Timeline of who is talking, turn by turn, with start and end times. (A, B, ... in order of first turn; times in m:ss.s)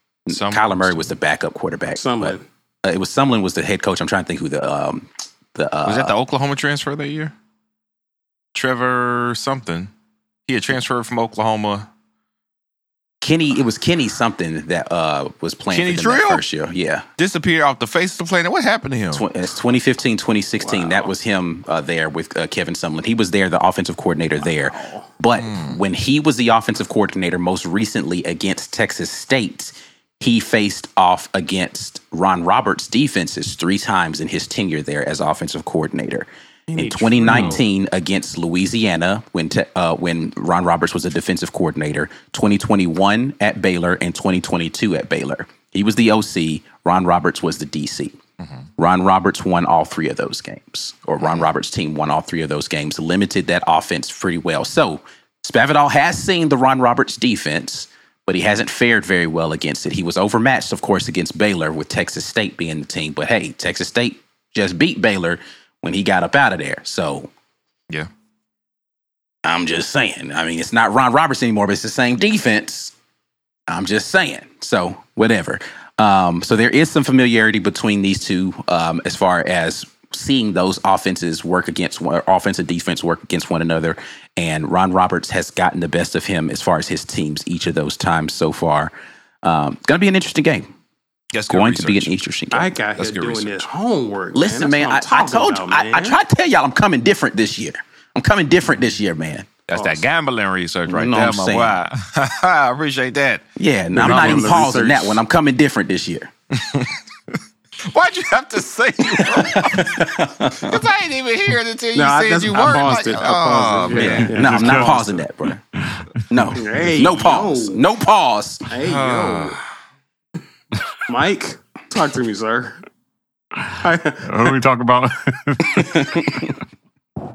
0:00.3-0:06.1 A
0:00.3-0:01.1 B
0:01.9-0:02.4 C
0:05.8-0:07.3 B
0:08.6-0:09.9 B
0:10.5-0:11.9 B
0:13.2-0:17.1 A
0:15.7-0:16.4 B
0:17.2-0:19.3 B
0:19.1-0:48.2 A
0:20.6-0:21.1 C
0:24.4-0:25.1 C
0:25.4-0:25.8 B
0:36.7-0:37.6 C
0:48.8-1:07.3 A
1:09.4-1:12.9 A
1:13.7-1:28.9 A
1:29.4-1:30.7 A
1:31.3-1:32.2 B
1:31.5-1:32.7 A
1:32.5-1:36.2 C
1:32.9-1:33.5 B
1:34.3-1:39.5 A
1:39.7-1:43.4 B
1:39.7-1:40.0 C
1:40.9-1:41.8 A
1:43.6-1:46.3 A
1:43.9-1:45.2 C
1:44.0-1:44.8 B
1:46.6-1:46.9 B
1:47.9-1:50.1 B
1:49.4-1:50.8 A
1:50.6-1:54.9 B
1:51.9-1:55.0 C
1:53.9-1:55.6 A
1:54.4-1:55.2 D
1:55.8-1:56.2 D
1:56.3-1:58.6 A
1:56.6-1:57.8 C
1:58.7-1:59.6 C
1:58.8-1:59.6 B
2:01.1-2:02.8 C
2:03.8-2:04.5 C
2:04.2-2:06.6 D
2:05.7-2:06.3 C